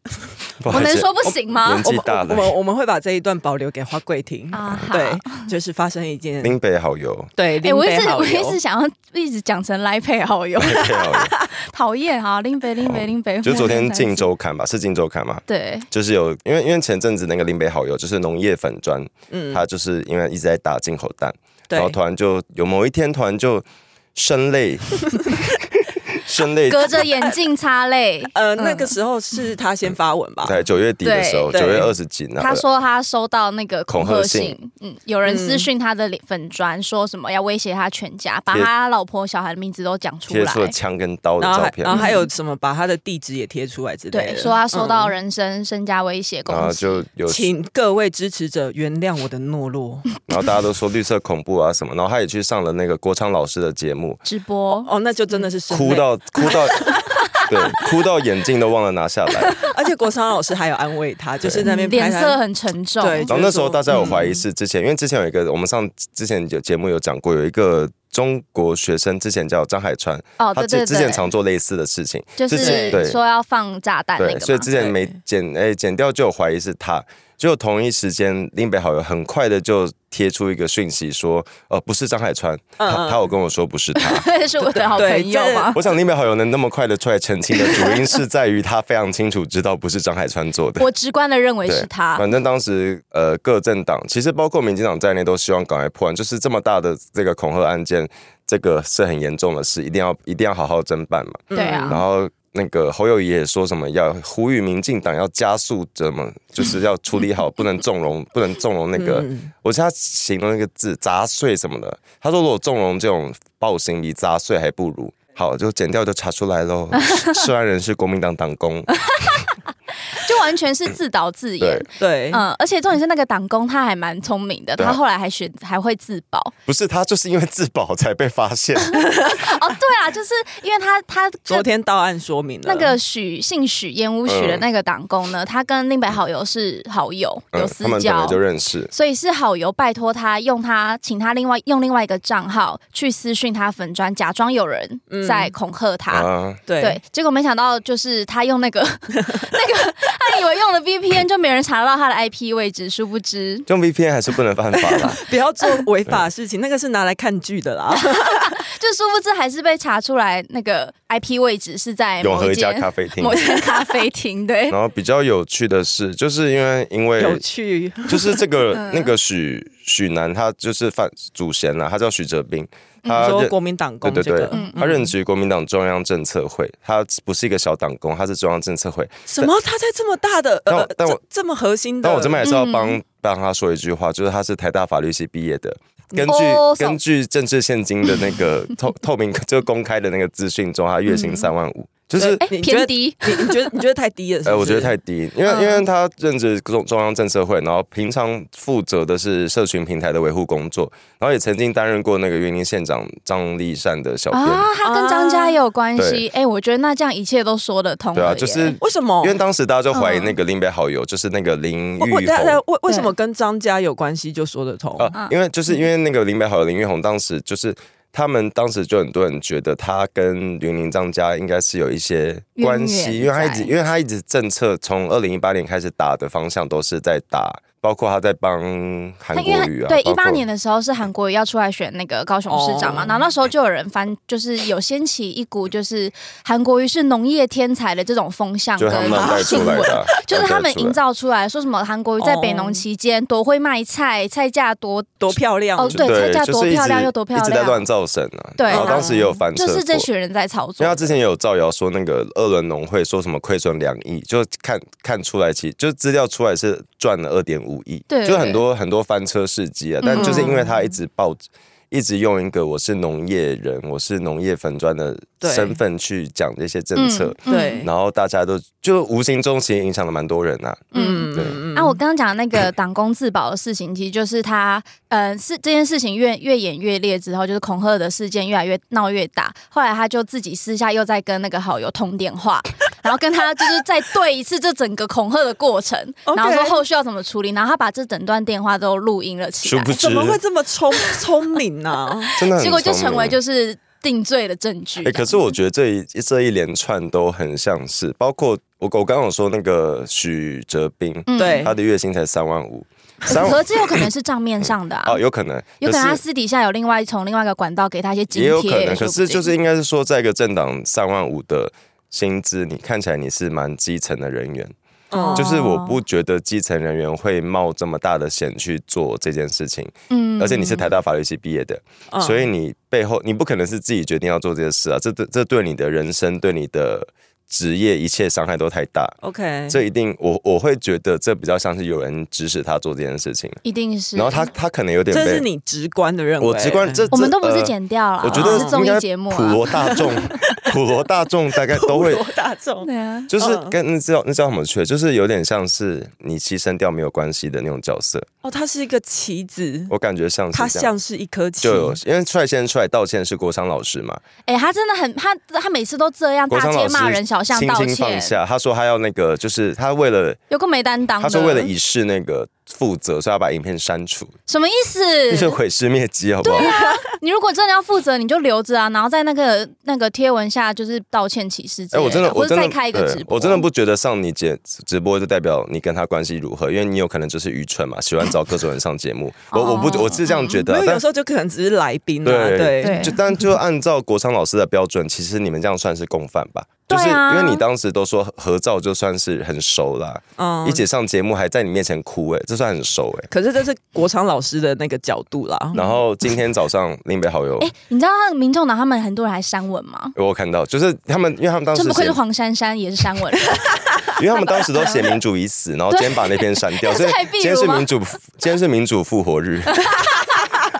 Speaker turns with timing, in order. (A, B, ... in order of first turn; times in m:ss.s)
0:00.6-0:02.5 A
0:00.6-0:01.8 B
0:01.8-0:06.6 C
0:04.5-0:05.5 B
0:06.4-0:07.3 A
0:07.4-0:08.6 C
0:07.6-0:14.3 B
0:10.6-0:11.3 A
0:12.8-0:27.1 A
0:15.5-0:15.9 B
0:19.3-0:19.6 C
0:21.7-0:22.0 C
0:26.6-0:28.9 B
0:28.4-0:30.6 C
0:30.4-0:32.6 A
0:31.0-0:31.6 B
0:31.5-0:31.9 C
0:32.4-0:40.7 B
0:33.9-0:34.6 A
0:35.2-0:35.7 C
0:40.3-0:42.0 A
0:41.4-0:45.1 C
0:41.9-0:42.2 B
0:44.1-0:47.0 B
0:46.5-0:47.5 A
0:47.2-0:50.1 C
0:50.3-0:54.2 A
0:54.2-0:54.9 B
0:54.8-0:57.0 C
0:55.7-0:59.6 A
0:59.6-1:02.4 C
1:01.6-1:03.3 B
1:03.0-1:04.4 C
1:03.3-1:13.2 A
1:10.4-1:11.2 B
1:12.4-1:14.7 B
1:12.5-1:13.0 C
1:14.2-1:24.8 A
1:14.8-1:15.1 C
1:22.8-1:23.2 C
1:23.9-1:25.8 B
1:24.9-1:25.8 C
1:25.7-1:30.9 A
1:27.6-1:28.0 B
1:30.8-1:32.2 B
1:31.6-1:58.9 A
1:41.5-1:42.0 C
1:41.5-1:42.0 B
1:48.9-1:49.5 C
1:57.0-1:57.4 B
1:59.0-1:59.4 B
2:00.1-2:06.5 B
2:02.0-2:02.4 C
2:06.7-2:09.0 A
2:09.0-2:09.4 C
2:09.2-2:11.7 B
2:11.5-2:13.0 C
2:12.6-2:18.4 B
2:14.2-2:14.6 A
2:17.5-2:18.9 A
2:18.9-2:26.3 B
2:25.1-2:25.5 C
2:26.1-2:26.6 A
2:26.7-2:27.0 C
2:26.8-2:33.7 B
2:33.7-2:35.2 A
2:35.2-2:38.5 C
2:38.0-2:44.8 B
2:42.2-2:43.6 A
2:44.7-2:47.4 A
2:47.2-2:48.4 C
2:48.1-2:59.5 A
2:48.7-2:49.1 B
2:53.1-2:55.0 C
2:54.5-2:54.8 B
2:59.3-3:02.4 C
3:00.7-3:01.2 A
3:02.0-3:12.4 A
3:02.4-3:03.0 B
3:06.2-3:07.0 B
3:11.1-3:11.5 B
3:12.2-3:13.6 B
3:12.2-3:14.9 C
3:14.4-3:24.7 A
3:15.5-3:15.8 B
3:24.3-3:28.8 B
3:24.8-3:25.6 C
3:26.0-3:26.2 A
3:28.1-3:32.6 A
3:28.8-3:29.4 C
3:29.9-3:30.3 B
3:32.0-3:35.1 C
3:32.9-3:33.1 B
3:35.0-3:50.4 A
3:42.6-3:43.7 B
3:49.3-4:05.1 B
3:52.5-3:53.2 C
3:58.8-4:01.0 A
3:58.9-4:00.1 C
4:02.2-4:02.8 C
4:05.2-4:06.0 C
4:05.8-4:07.9 B
4:05.9-4:10.1 A
4:08.6-4:11.2 B
4:08.7-4:09.3 C
4:10.8-4:31.6 A
4:18.1-4:18.6 B
4:20.0-4:20.5 B
4:20.2-4:20.8 C
4:25.4-4:25.8 C
4:27.0-4:27.8 B
4:27.5-4:27.9 C
4:30.9-4:50.0 B
4:30.9-4:32.0 C
4:46.2-4:46.8 C
4:49.6-4:50.4 A
4:49.9-4:52.3 C
4:52.4-4:53.4 A
4:52.5-4:55.4 B
4:55.0-5:04.1 A
5:01.3-5:01.7 B
5:01.4-5:01.7 C
5:03.3-5:05.2 B
5:04.6-5:06.2 A
5:05.8-5:09.5 B
5:08.3-5:14.7 A
5:15.1-5:15.5 C
5:15.1-5:16.0 B
5:15.4-5:29.1 A
5:20.1-5:20.9 B
5:22.1-5:22.4 C
5:29.2-5:29.8 C
5:29.7-5:33.6 A
5:33.6-5:34.5 B
5:34.1-5:35.5 A
5:35.1-5:37.1 C
5:36.4-5:42.2 A
5:37.1-5:40.0 B
5:38.2-5:38.8 C
5:39.7-5:40.7 C
5:41.6-5:43.8 C
5:42.8-5:43.3 B
5:43.3-5:48.3 A
5:48.4-5:49.9 C
5:49.9-5:50.9 A
5:50.5-5:52.0 C
5:51.6-5:54.2 A
5:54.4-5:58.4 B
5:56.5-6:00.4 A
6:00.5-6:01.7 B
6:01.2-6:04.3 A
6:04.5-6:05.6 B
6:05.3-6:06.7 A
6:06.4-6:13.6 B
6:11.9-6:21.0 A
6:19.5-6:20.6 B
6:20.7-6:23.2 C
6:22.2-6:33.3 A
6:22.8-6:23.2 B
6:26.9-6:27.6 B
6:30.4-6:30.8 C
6:33.3-6:35.8 C
6:35.7-6:37.7 A
6:37.6-6:40.1 B
6:40.1-6:42.2 A
6:41.7-6:43.8 B
6:44.1-6:50.0 A
6:44.8-6:45.0 B
6:45.9-6:47.9 B
6:49.7-6:50.4 B